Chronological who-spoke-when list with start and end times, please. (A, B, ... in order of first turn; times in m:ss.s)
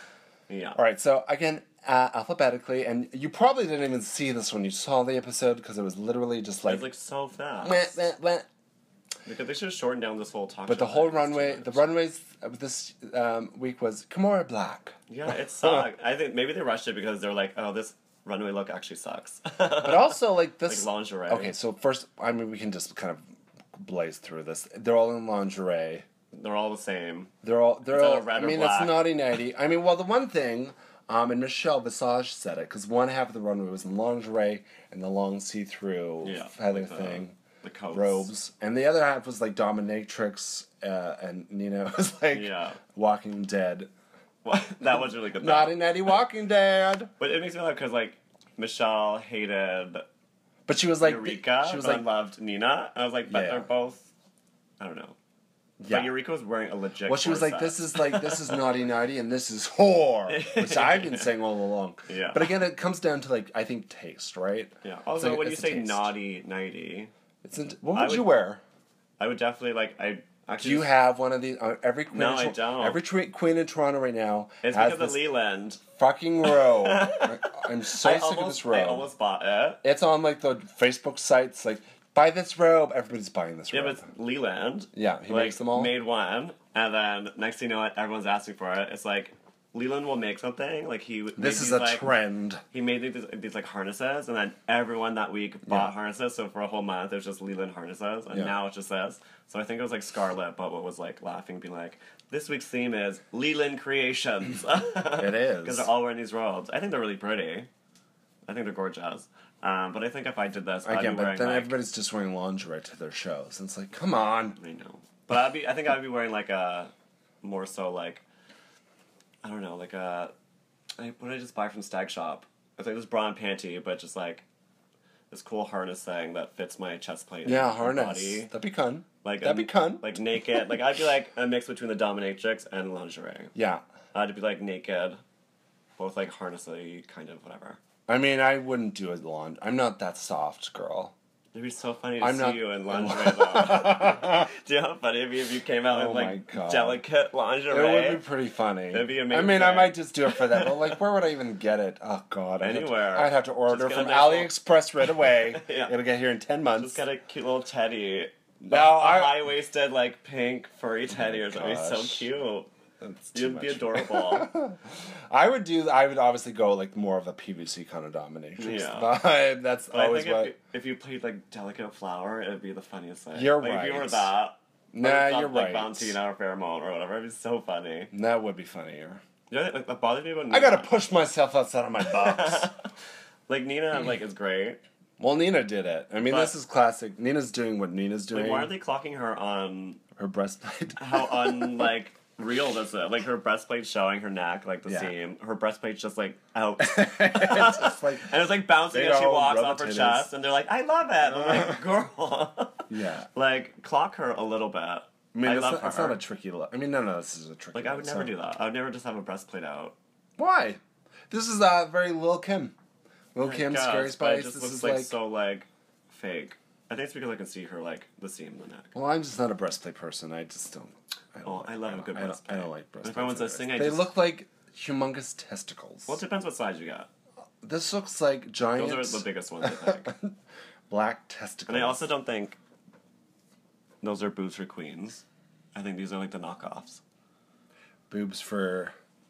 0:00.5-0:00.8 A
0:00.7-0:06.9 B
0:06.6-0:07.9 A
0:07.6-0:08.4 B
0:09.2-0:11.8 A
0:10.6-0:15.0 B
0:15.1-0:21.5 A
0:15.6-0:15.8 B
0:19.8-0:23.2 B
0:23.8-0:26.0 B
0:26.3-0:27.3 A
0:27.4-0:37.4 B
0:27.9-0:29.0 A
0:36.2-0:38.3 A
0:37.9-0:43.9 B
0:42.3-0:42.8 A
0:44.4-0:46.1 A
0:45.4-0:47.1 B
0:47.2-0:50.1 A
0:50.7-0:52.1 B
0:51.0-0:54.1 A
0:53.3-0:53.7 B
0:54.8-0:55.1 A
0:55.8-0:56.2 B
0:55.9-0:58.6 A
0:57.0-1:06.1 B
1:00.3-1:01.4 A
1:02.1-1:02.5 A
1:04.8-1:07.1 A
1:07.4-1:08.6 B
1:07.9-1:08.3 A
1:09.2-1:10.9 A
1:10.6-1:15.2 B
1:12.1-1:13.0 A
1:14.6-1:15.8 A
1:15.9-1:19.1 B
1:16.4-1:19.8 A
1:19.8-1:24.0 B
1:23.7-1:32.1 A
1:24.9-1:25.9 B
1:31.4-1:32.6 B
1:32.7-1:47.7 A
1:35.7-1:35.9 B
1:45.2-1:45.9 B
1:48.4-1:51.7 A
1:50.8-1:54.6 B
1:54.6-1:58.2 A
1:59.4-2:00.3 A
2:01.0-2:04.4 A
2:05.3-2:08.5 A
2:07.4-2:10.3 B
2:09.2-2:13.5 A
2:13.5-2:13.8 B
2:14.1-2:15.2 A
2:16.0-2:17.8 A
2:18.1-2:21.1 B
2:21.5-2:28.2 A
2:22.2-2:24.5 B
2:25.9-2:27.0 B
2:27.7-2:37.0 B
2:28.9-2:30.9 A
2:32.6-2:35.9 A
2:36.8-2:42.7 A
2:38.6-2:39.4 B
2:41.1-2:42.2 B
2:43.0-2:50.5 B
2:43.3-2:44.5 A
2:48.6-2:49.1 A
2:49.9-2:58.1 A
2:53.3-2:54.3 B
2:54.9-2:56.2 B
2:58.1-2:59.2 B
2:59.5-3:00.9 A
3:00.5-3:02.7 B
3:02.0-3:02.8 A
3:03.5-3:04.8 A
3:05.2-3:08.7 B
3:06.2-3:06.5 A
3:08.3-3:10.0 A
3:10.2-3:11.8 B
3:11.0-3:26.2 A
3:14.8-3:15.1 B
3:16.8-3:20.3 B
3:21.2-3:21.8 B
3:22.9-3:23.3 B
3:25.3-3:28.3 B
3:27.7-3:29.9 A
3:30.4-3:32.7 B
3:33.3-3:35.1 B
3:33.4-3:39.0 A
3:38.9-3:46.2 B
3:41.4-3:44.1 A
3:46.1-3:47.1 A
3:47.6-3:50.3 B
3:48.7-3:50.1 A
3:50.9-3:52.0 B
3:51.7-3:52.6 A
3:54.0-3:57.0 A
3:58.1-3:58.9 B